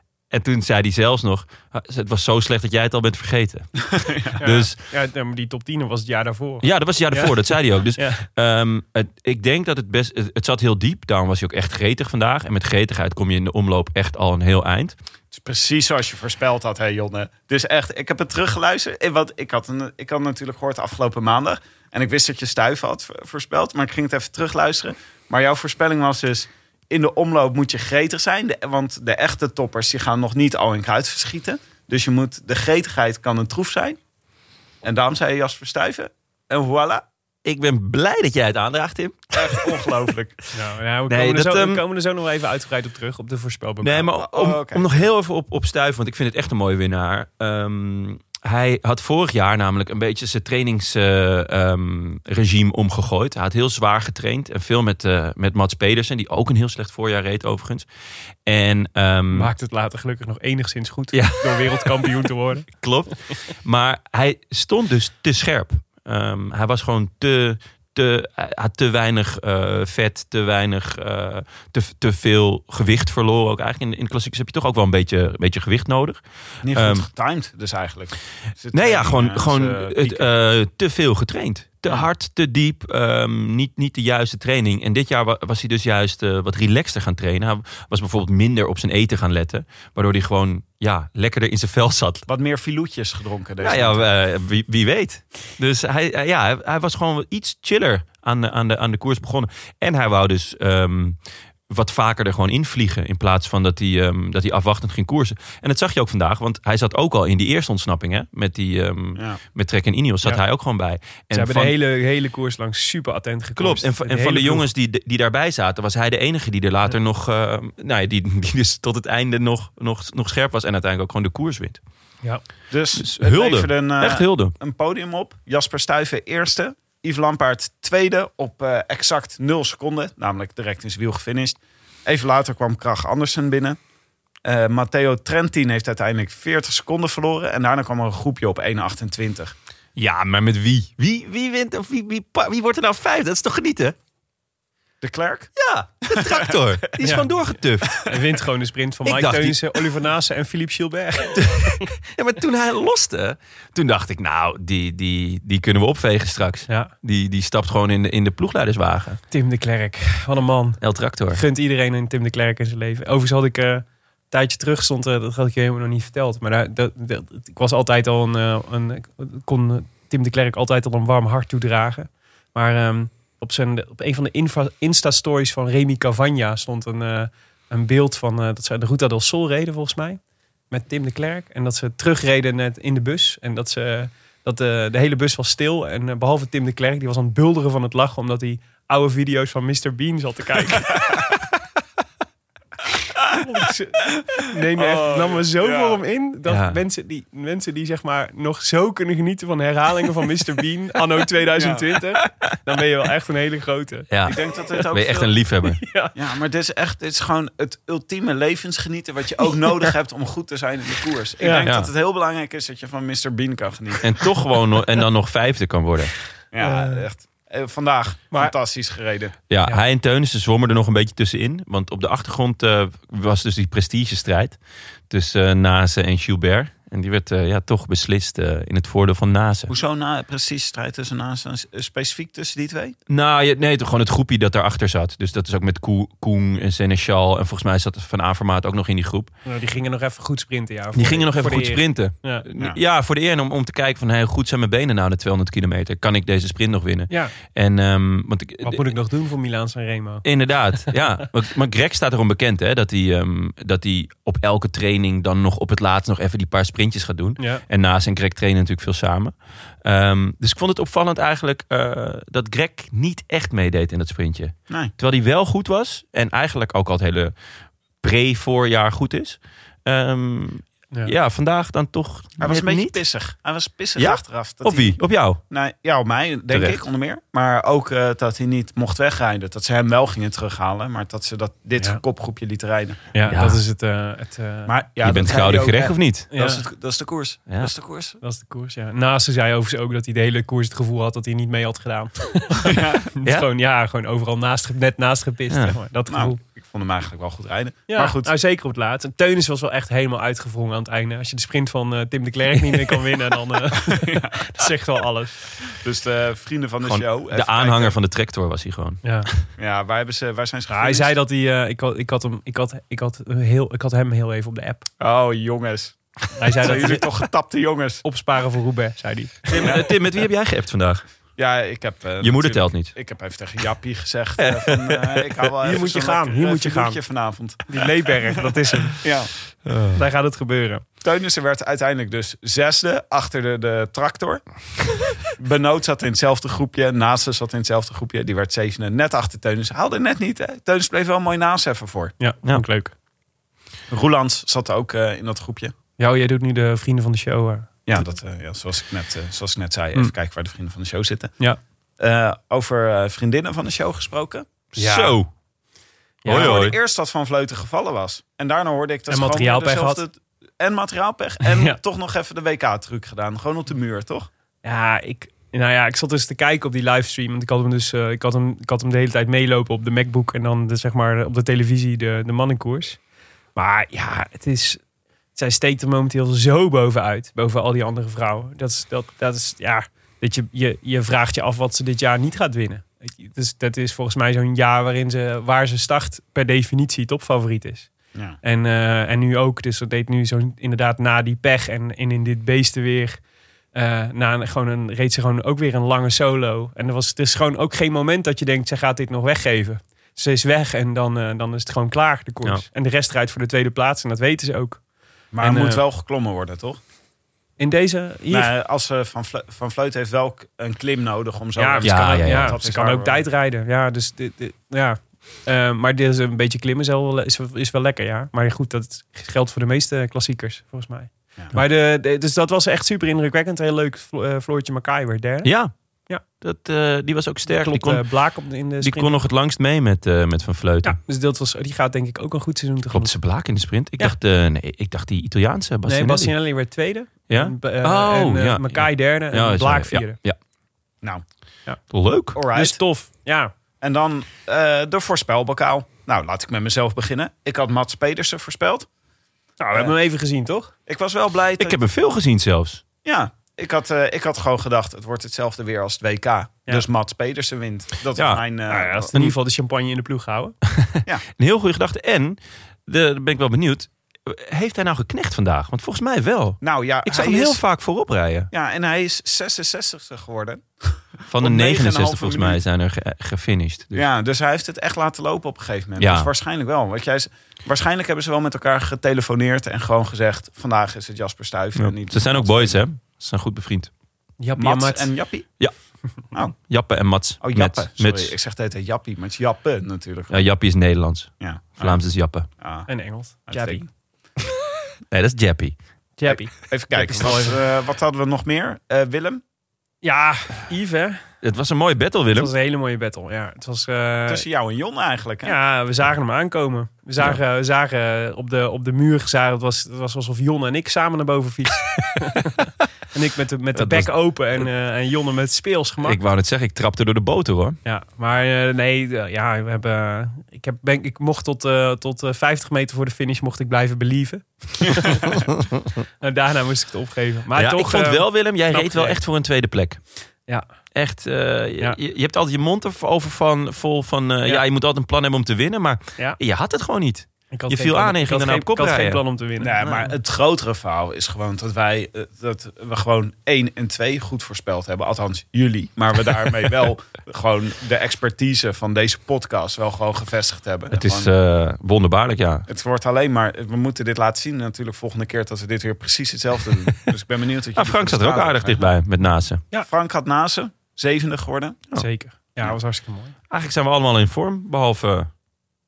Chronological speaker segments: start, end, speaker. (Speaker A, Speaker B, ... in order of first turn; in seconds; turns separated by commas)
Speaker A: 0.3-4.8, Speaker B: 3.9-4.5, Speaker C: 4.4-7.3, Speaker A: 6.6-14.9, Speaker C: 8.0-8.2, Speaker B: 15.3-34.0, Speaker B: 34.8-37.0, Speaker A: 37.5-39.7, Speaker B: 39.3-40.4, Speaker C: 40.5-44.1, Speaker A: 41.1-41.8, Speaker A: 43.8-57.9, Speaker B: 44.1-45.1, Speaker A: 58.5-59.5, Speaker C: 59.3-62.7, Speaker A: 61.1-62.1, Speaker A: 62.8-77.1, Speaker B: 76.6-80.3, Speaker A: 78.7-92.3, Speaker B: 92.3-94.1, Speaker A: 93.6-101.2, Speaker A: 101.7-111.7, Speaker C: 111.3-114.7, Speaker A: 113.6-121.8, Speaker B: 122.7-133.8, Speaker A: 123.0-124.5, Speaker B: 134.4-139.6, Speaker A: 140.0-143.9, Speaker B: 145.0-145.5, Speaker A: 145.6-148.1, Speaker B: 146.1-146.6, Speaker C: 147.0-147.3, Speaker C: 148.0-151.8, Speaker A: 149.1-149.8, Speaker A: 151.4-159.2, Speaker C: 159.3-160.8, Speaker A: 160.8-161.4, Speaker C: 161.3-180.2, Speaker C: 180.7-191.2, Speaker C: 193.3-204.1, Speaker B: 194.8-196.0, Speaker A: 196.5-196.8, Speaker B: 201.6-201.8, Speaker A: 204.1-204.4, Speaker B: 204.2-205.3, Speaker A: 204.9-205.8, Speaker C: 205.8-206.1, Speaker B: 206.2-214.1, Speaker C: 211.4-211.7, Speaker A: 214.0-216.2, Speaker B: 216.5-219.3, Speaker C: 216.6-217.1, Speaker A: 219.5-224.6, Speaker A: 225.1-229.7, Speaker B: 229.7-233.0, Speaker A: 233.1-239.3, Speaker C: 239.5-242.4, Speaker A: 240.9-248.9, Speaker C: 248.6-250.2, Speaker A: 250.2-267.3, Speaker C: 257.4-257.6, Speaker A: 268.0-273.0, Speaker B: 272.4-283.0, Speaker A: 274.0-275.4, Speaker A: 276.5-276.8, Speaker C: 283.1-284.7, Speaker A: 283.3-283.6, Speaker B: 284.7-288.2, Speaker A: 285.0-286.3, Speaker C: 286.3-286.6, Speaker C: 288.2-296.4, Speaker B: 292.6-293.1, Speaker B: 296.1-298.3, Speaker C: 297.9-305.4, Speaker B: 303.8-304.7, Speaker B: 305.6-308.0, Speaker A: 306.9-309.4, Speaker C: 309.0-309.3, Speaker B: 309.6-311.1, Speaker C: 310.7-314.9, Speaker B: 315.0-316.0, Speaker C: 316.4-317.1, Speaker B: 316.6-318.0, Speaker C: 318.0-319.7, Speaker A: 319.5-321.0, Speaker B: 319.6-319.9, Speaker B: 321.4-328.5, Speaker A: 322.2-322.9, Speaker A: 324.4-325.3, Speaker C: 325.6-327.0, Speaker C: 327.7-329.0, Speaker B: 329.0-329.3, Speaker A: 329.7-330.0, Speaker C: 329.9-330.8, Speaker B: 331.0-334.4, Speaker B: 335.3-342.1, Speaker C: 342.2-342.9, Speaker B: 343.9-345.7, Speaker C: 346.0-347.7, Speaker B: 347.9-351.3, Speaker B: 352.0-354.5, Speaker A: 354.7-355.3, Speaker C: 354.8-355.2, Speaker C: 356.2-356.6, Speaker A: 356.2-356.8, Speaker B: 356.3-364.3, Speaker C: 359.1-360.0, Speaker C: 361.4-361.8, Speaker C: 364.6-373.0, Speaker C: 373.6-374.8, Speaker C: 375.4-387.9, Speaker C: 388.4-393.2, Speaker C: 393.7-404.8, Speaker B: 405.3-406.8, Speaker C: 405.4-405.8, Speaker C: 407.6-408.5, Speaker B: 408.3-413.3, Speaker C: 411.6-425.5, Speaker A: 411.8-412.6, Speaker A: 425.4-425.7, Speaker A: 426.4-428.1, Speaker C: 427.5-429.1, Speaker A: 428.8-431.0, Speaker C: 430.8-433.1, Speaker A: 432.9-436.3, Speaker C: 435.9-440.2, Speaker A: 437.3-440.4, Speaker A: 441.9-442.4, Speaker B: 442.3-442.8, Speaker C: 442.5-443.5, Speaker B: 443.8-448.9, Speaker C: 449.6-450.7, Speaker B: 450.9-451.8, Speaker A: 451.6-452.8, Speaker B: 453.0-459.1, Speaker A: 458.2-458.4, Speaker C: 458.7-460.6, Speaker A: 460.7-468.5, Speaker B: 466.6-467.6, Speaker B: 468.5-472.6, Speaker A: 471.3-474.1, Speaker B: 473.9-482.8, Speaker A: 476.0-476.3, Speaker A: 481.8-483.9, Speaker C: 484.4-485.1, Speaker B: 484.6-485.5, Speaker A: 486.7-488.3, Speaker B: 487.4-490.4, Speaker A: 490.3-492.5, Speaker B: 491.4-492.0, Speaker B: 492.6-492.9, Speaker C: 492.9-493.8, Speaker B: 493.5-493.9, Speaker A: 495.1-495.8, Speaker C: 496.2-497.6, Speaker B: 496.3-499.4, Speaker C: 500.0-501.2, Speaker A: 501.4-502.5, Speaker C: 502.4-504.4, Speaker B: 504.3-505.6, Speaker C: 505.4-516.2, Speaker A: 513.8-514.1, Speaker A: 516.0-517.8, Speaker C: 517.9-525.4, Speaker C: 526.2-529.2, Speaker A: 527.5-530.0, Speaker A: 531.0-539.2, Speaker C: 537.5-540.1, Speaker B: 539.6-551.3, Speaker A: 550.9-552.7, Speaker B: 552.7-558.9, Speaker A: 557.8-559.6, Speaker B: 559.8-561.8, Speaker C: 562.0-563.3, Speaker A: 563.5-565.3